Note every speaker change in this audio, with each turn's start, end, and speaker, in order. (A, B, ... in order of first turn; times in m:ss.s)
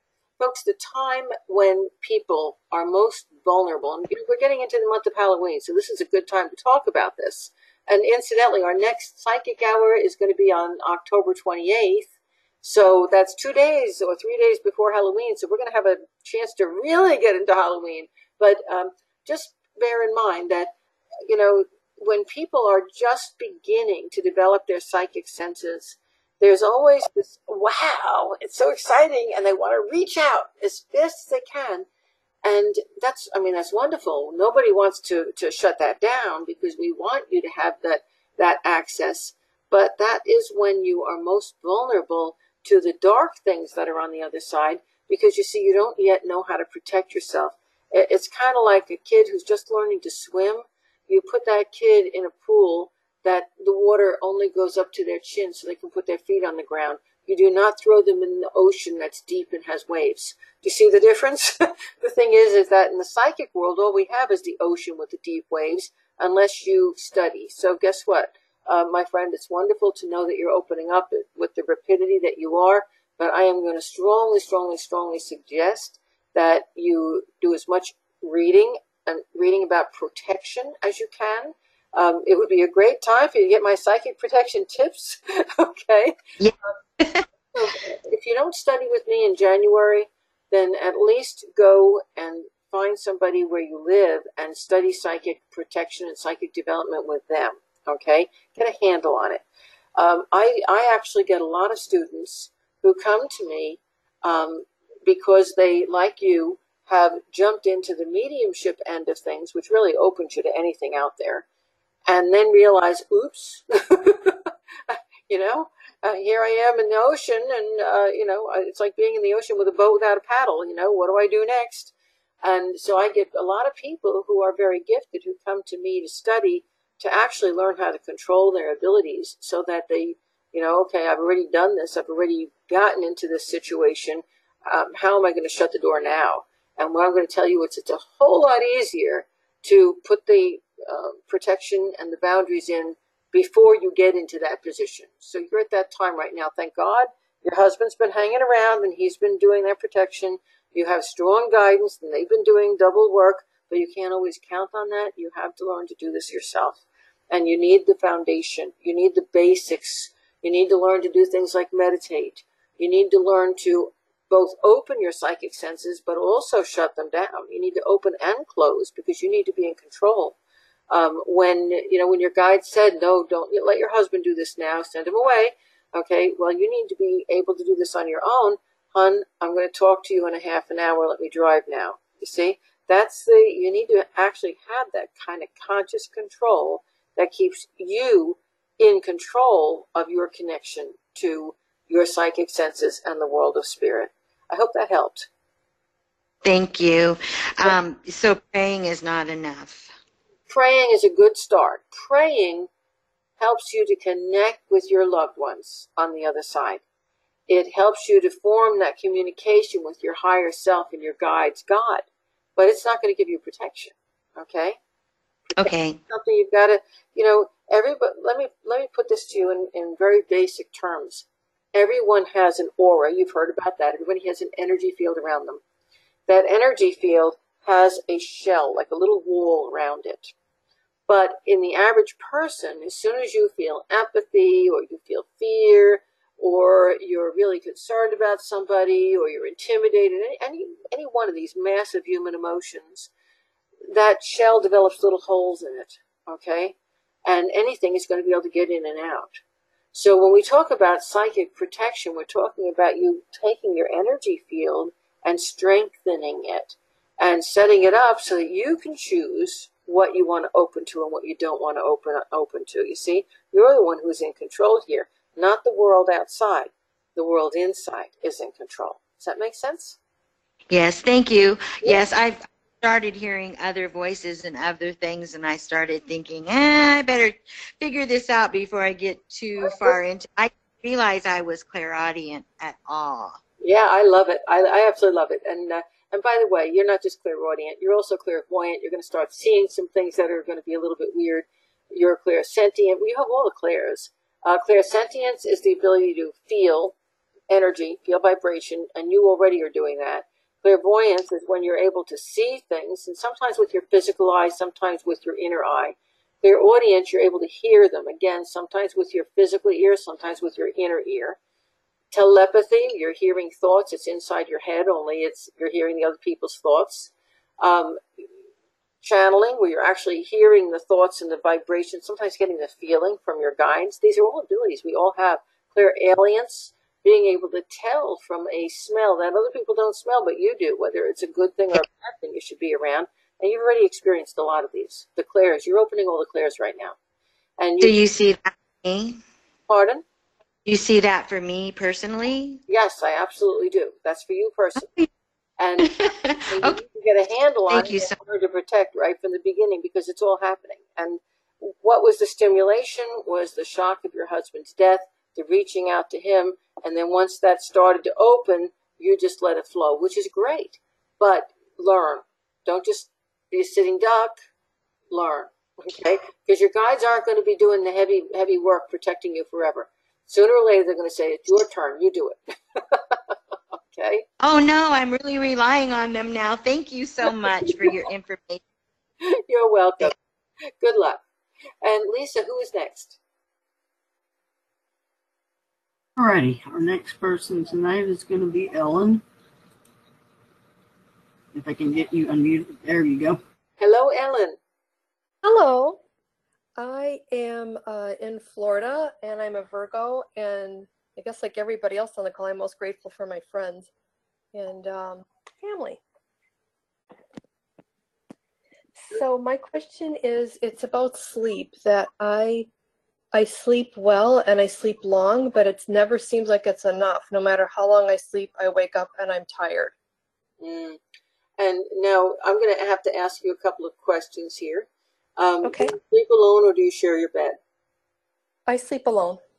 0:00.4-0:20.7 A
0:21.3-0:31.9 A
0:32.4-1:26.1 A
1:26.4-1:27.6 B
1:27.6-1:39.4 A
1:40.0-1:51.4 A
1:52.1-2:50.4 A
2:50.9-3:15.3 A
3:16.4-3:19.9 B
3:20.5-3:22.7 A
3:23.4-3:26.8 A
3:27.5-3:32.0 A
3:32.6-3:34.8 A
3:35.6-3:36.0 B
3:35.6-3:45.6 A
3:46.3-3:50.3 A
3:51.1-4:03.1 A
4:03.9-4:09.4 A
4:09.9-4:30.0 A
4:30.7-4:43.4 B
4:39.6-4:40.0 A
4:43.6-4:56.9 A
4:57.5-5:11.4 A
5:12.1-5:18.0 A
5:19.0-5:37.0 A
5:37.6-5:38.0 A
5:37.8-5:39.2 B
5:39.7-5:40.0 A
5:40.6-5:42.6 B
5:42.7-5:44.8 A
5:44.8-5:45.1 B
5:45.6-5:45.9 A
5:45.8-5:46.8 B
5:46.5-6:04.4 A
5:47.7-5:48.1 B
6:05.1-6:13.2 A
6:13.9-6:14.2 A
6:14.4-6:18.6 B
6:17.6-6:17.9 A
6:19.2-6:20.1 A
6:20.8-6:21.2 A
6:21.8-6:23.2 A
6:26.2-6:29.2 C
6:31.5-6:33.4 C
6:33.8-6:34.6 A
6:35.4-6:36.0 D
6:36.8-6:43.9 D
6:44.5-6:46.0 D
6:49.1-6:52.7 D
6:53.3-6:59.9 D
7:00.6-7:01.0 A
7:01.6-7:07.6 A
7:05.6-7:05.9 D
7:08.7-7:09.4 D